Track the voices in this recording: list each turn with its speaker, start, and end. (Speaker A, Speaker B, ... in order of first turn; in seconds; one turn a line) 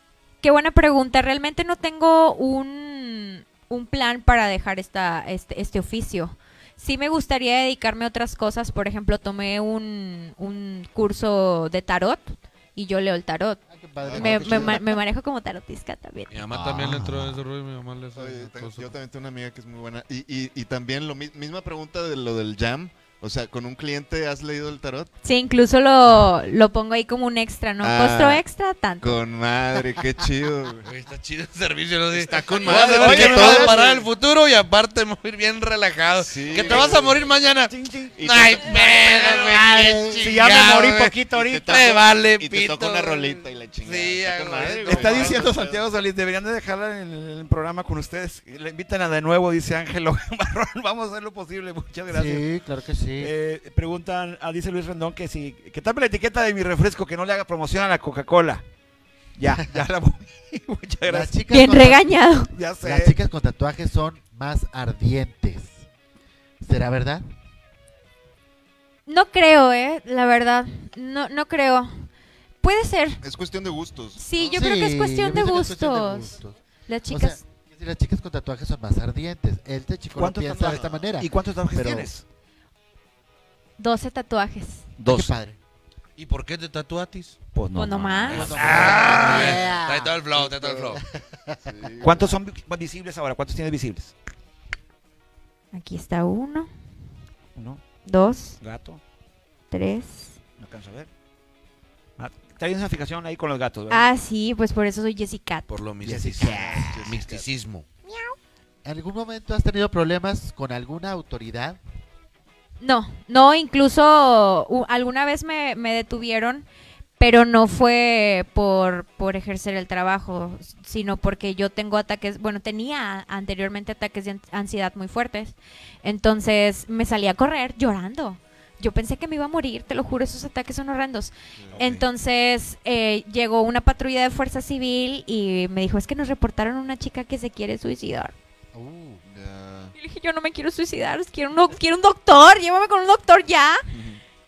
Speaker A: 0.4-13.6
Speaker B: 13.7-14.9
Speaker C: 14.0-14.8
Speaker A: 14.1-16.3
Speaker D: 16.3-18.9
Speaker C: 18.1-25.1
Speaker A: 25.2-29.2
Speaker C: 27.8-28.4
Speaker C: 29.0-30.9
Speaker D: 30.8-45.4
Speaker C: 32.1-34.1
Speaker E: 32.6-33.8
Speaker C: 36.2-37.2
Speaker E: 37.7-38.2
Speaker C: 38.1-40.0
Speaker B: 39.5-40.2
Speaker E: 40.2-41.8
Speaker C: 41.3-45.8
Speaker E: 44.8-52.4
Speaker B: 52.1-53.3
Speaker E: 53.2-58.6
Speaker E: 59.4-61.3
Speaker B: 61.1-62.2
Speaker A: 61.5-62.5
Speaker E: 62.5-63.2
Speaker B: 62.8-65.8
Speaker B: 66.6-67.2
Speaker A: 69.0-72.1
Speaker A: 72.6-73.2
Speaker C: 73.2-74.5
Speaker A: 74.2-77.5
Speaker B: 74.4-82.1
Speaker E: 80.1-82.2
Speaker C: 80.5-81.1
Speaker A: 83.8-84.9
Speaker E: 85.0-85.4
Speaker B: 85.0-85.6
Speaker D: 86.2-87.4
Speaker E: 87.5-89.5
Speaker A: 87.7-88.7
Speaker D: 88.1-91.0
Speaker B: 88.2-90.1
Speaker C: 89.2-89.6
Speaker C: 90.3-91.0
Speaker B: 91.0-91.6
Speaker C: 91.6-92.3
Speaker E: 92.0-94.1
Speaker A: 95.7-96.7
Speaker E: 97.5-97.8
Speaker A: 98.0-98.6
Speaker E: 98.6-99.0
Speaker A: 99.7-100.3
Speaker E: 100.6-101.1
Speaker E: 102.2-104.1
Speaker A: 103.9-105.8
Speaker D: 105.7-107.8
Speaker E: 106.0-107.0
Speaker B: 106.1-106.8
Speaker C: 106.9-107.5
Speaker A: 108.0-108.3
Speaker B: 108.8-111.8
Speaker A: 112.8-116.7
Speaker A: 117.2-138.3
Speaker C: 131.6-132.0
Speaker B: 138.7-139.2
Speaker C: 139.2-139.9
Speaker A: 139.9-143.8
Speaker C: 143.9-144.2